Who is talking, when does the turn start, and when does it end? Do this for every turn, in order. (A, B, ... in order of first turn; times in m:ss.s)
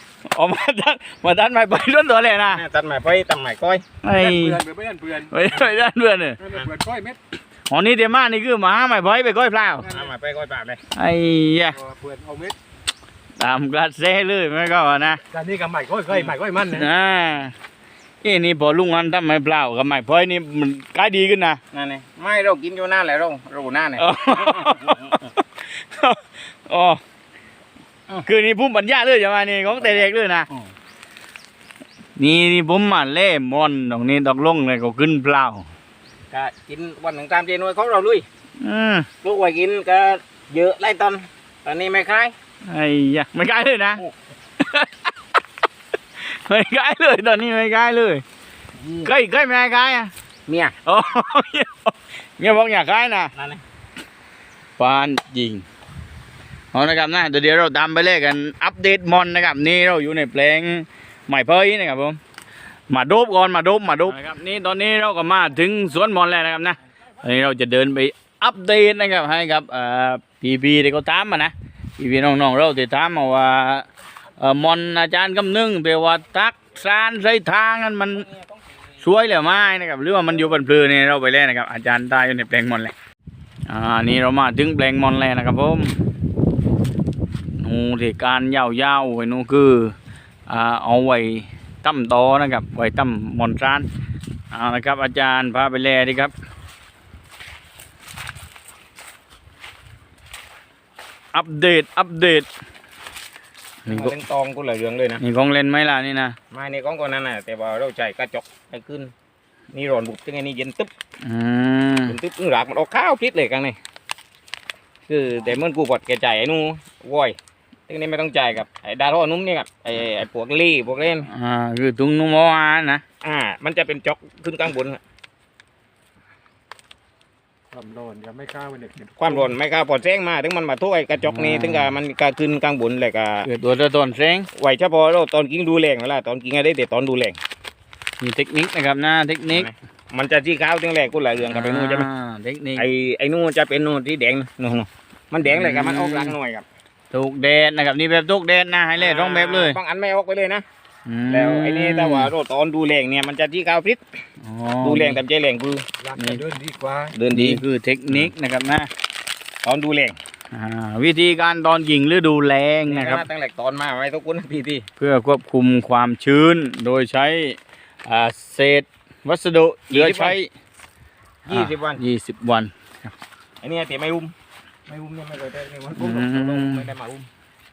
0:00.3-0:02.6 A
0:02.5-0:03.8 B
0:04.0-0:06.5 A
0:04.4-0:05.2 C
0:06.6-0:07.2 C
0:07.7-0:10.0 A
0:09.9-0:10.8 B
0:11.0-0:11.8 A
0:11.9-0:12.6 C
0:13.4-0:15.2 A
0:15.3-0:16.7 C
0:16.1-0:16.4 B
0:16.6-0:17.6 A
0:18.2-0:21.6 A
0:21.7-0:25.2 B
0:24.0-0:27.0 A
0:28.2-0:30.5 A
0:29.8-0:30.6 B
0:32.2-0:35.7 A
0:36.3-0:38.3 B
0:38.6-0:39.1 A
0:39.2-0:42.4 B
0:42.6-0:44.0 A
0:44.6-0:44.9 A
0:46.2-0:48.2 A
0:48.8-0:49.1 B
0:49.0-0:50.1 A
0:50.5-0:50.8 B
0:50.9-0:53.3 A
0:53.4-0:53.6 B
0:54.8-0:55.6 A
0:56.7-1:02.2 A
1:02.9-1:13.9 A
1:14.4-1:18.3 A
1:18.1-1:19.0 B
1:19.0-1:22.9 A
1:23.7-1:26.0 A
1:27.6-1:30.0 A
1:30.5-1:33.9 A
1:34.5-1:36.3 A
1:41.3-1:42.5 A
1:43.9-1:44.1 A
1:43.9-1:45.2 B
1:45.2-1:46.4 A
1:46.5-1:49.1 B
1:49.7-1:50.9 B
1:51.2-1:52.2 A
1:52.1-1:53.8 B
1:55.1-1:57.4 B
1:57.9-2:01.3 B
2:01.3-2:03.0 A
2:03.2-2:05.0 B
2:07.7-2:09.2 C
2:09.2-2:13.5 B
2:11.2-2:12.0 A
2:13.4-2:14.5 A
2:14.5-2:17.4 B
2:18.2-2:19.7 A
2:19.5-2:22.1 B
2:21.5-2:22.8 A
2:22.8-2:26.7 B
2:25.5-2:26.4 A
2:27.1-2:29.8 A
2:29.0-2:30.6 B
2:31.1-2:32.3 A
2:31.3-2:34.0 B
2:34.4-2:35.2 A
2:34.8-2:36.5 B
2:36.5-2:37.0 C
2:37.1-2:37.6 B
2:37.3-2:38.9 A
2:39.6-2:40.2 B
2:40.5-2:43.2 A
2:42.9-2:44.9 B
2:45.0-2:50.5 A
2:49.9-2:50.4 B
2:51.5-2:52.0 B
2:51.5-2:53.1 A
2:53.6-2:54.3 B
2:54.9-2:57.3 B
2:56.0-2:56.9 A